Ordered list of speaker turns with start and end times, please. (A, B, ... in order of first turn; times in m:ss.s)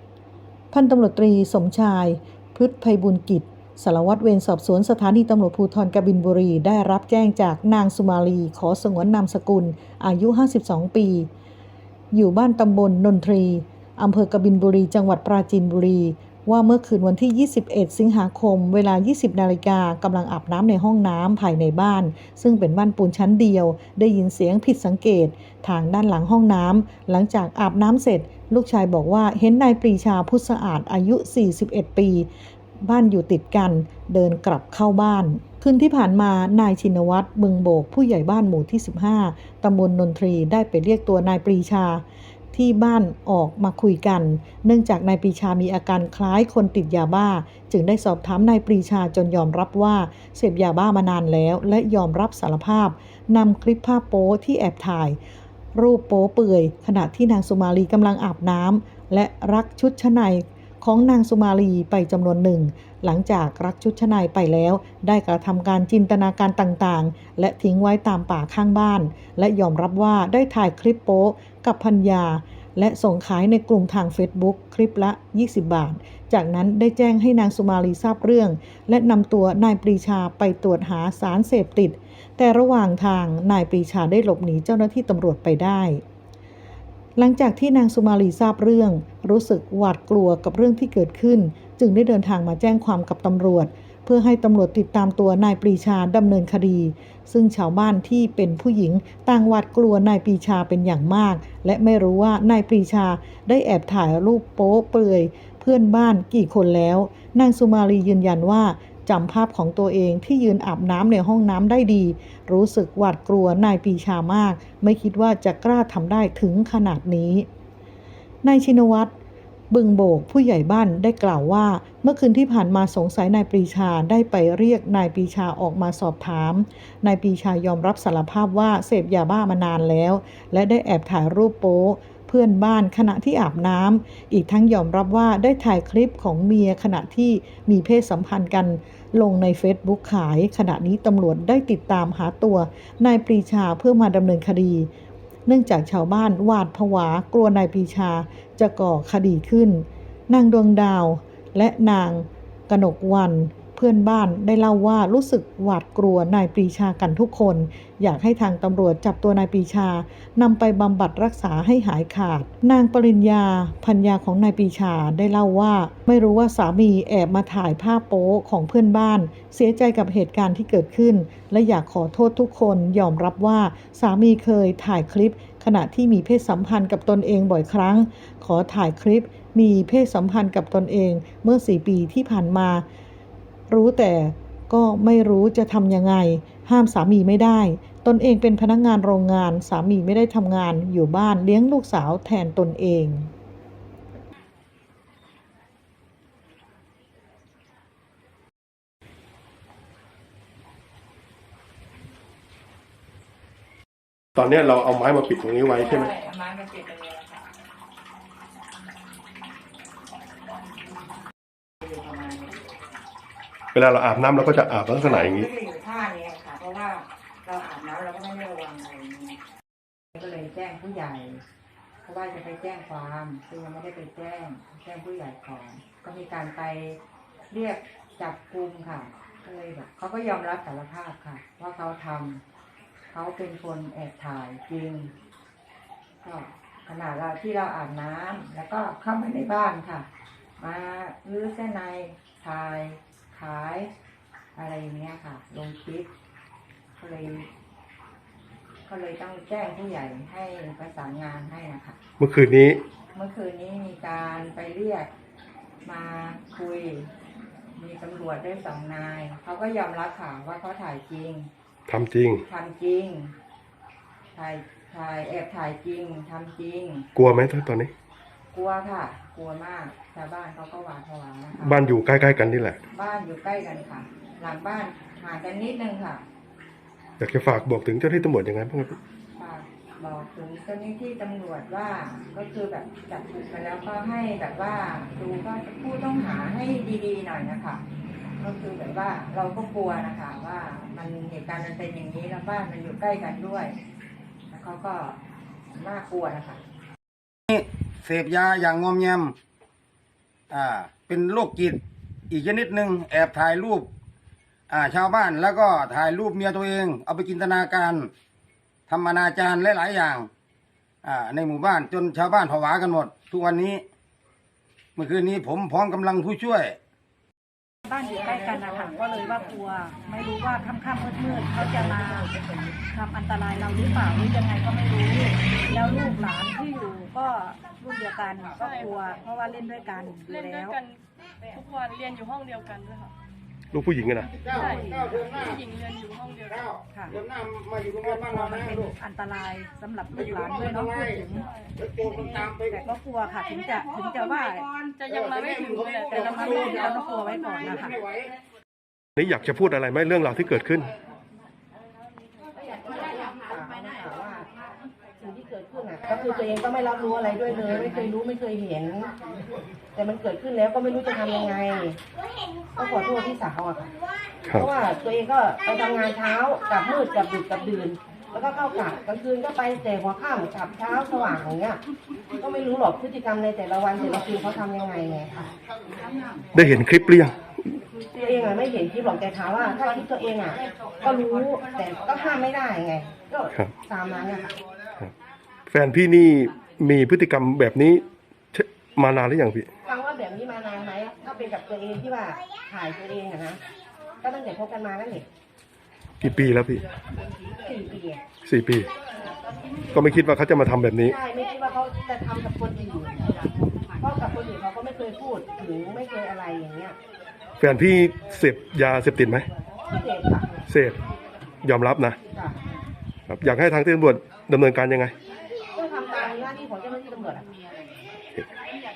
0:00.7-0:11.3 A
0:12.1-0:32.3 A
0:32.8-0:55.2 A
0:55.7-1:26.0 A
1:27.2-1:57.5 A
1:58.4-1:59.1 A
1:59.7-2:24.9 A
2:25.4-3:02.8 A
3:03.7-3:13.3 A
3:24.4-3:26.1 B
3:25.7-3:27.5 C
3:31.8-3:32.6 C
3:33.7-3:35.5 B
3:35.0-3:39.4 C
3:40.1-3:41.4 C
3:42.0-3:47.0 C
3:47.5-3:52.4 C
3:53.1-3:55.1 C
3:56.2-4:00.1 C
4:00.6-4:03.9 C
4:04.5-4:06.1 C
4:07.0-4:07.5 C
4:08.8-4:12.0 C
4:12.2-4:12.8 B
4:13.1-4:15.1 C
4:15.8-4:17.1 C
4:17.8-4:21.5 C
4:21.9-4:22.4 B
4:22.4-4:23.3 C
4:24.3-4:27.1 C
4:27.2-4:27.9 B
4:28.5-4:31.8 C
4:31.6-4:32.8 B
4:32.9-4:36.2 C
4:37.2-4:39.0 B
4:39.4-4:47.8 C
4:48.4-4:53.8 C
4:54.5-4:55.2 C
4:55.7-4:56.6 C
4:57.5-4:59.3 D
5:00.5-5:03.9 D
5:04.7-5:08.1 D
5:08.9-5:10.3 D
5:11.0-5:13.8 D
5:15.0-5:16.8 D
5:17.8-5:22.3 E
5:22.9-5:30.8 E
5:28.6-5:28.9 F
5:30.3-5:31.0 F
5:31.5-5:33.1 F
5:33.7-5:34.3 B
5:34.3-5:35.6 D
5:34.5-5:36.7 F
5:34.8-5:35.1 E
5:36.5-5:38.9 D
5:36.9-5:37.2 E
5:37.9-5:41.5 E
5:40.2-5:41.2 D
5:41.8-5:42.8 D
5:42.7-5:44.7 E
5:44.9-5:47.0 F
5:45.1-5:46.8 D
5:46.1-5:48.0 E
5:47.8-5:48.3 D
5:49.2-5:50.9 B
5:52.5-5:54.5 G
5:55.2-5:59.1 G
5:59.9-6:02.0 G
6:02.7-6:03.9 G
6:04.5-6:11.8 G
6:12.4-6:15.5 G
6:16.5-6:17.4 B
6:18.1-6:24.5 G
6:25.7-6:29.7 B
6:29.8-6:33.6 G
6:34.2-6:35.3 G
6:36.2-6:36.8 B
6:37.6-6:38.2 G
6:38.4-6:38.9 B
6:39.9-6:41.1 B
6:41.0-6:43.3 G
6:44.0-6:47.0 G
6:47.6-6:49.5 B
6:49.8-6:50.6 G
6:50.7-6:51.0 B
6:51.6-6:52.2 B
6:52.3-6:52.6 G
6:53.3-6:55.1 B
6:55.7-6:57.6 G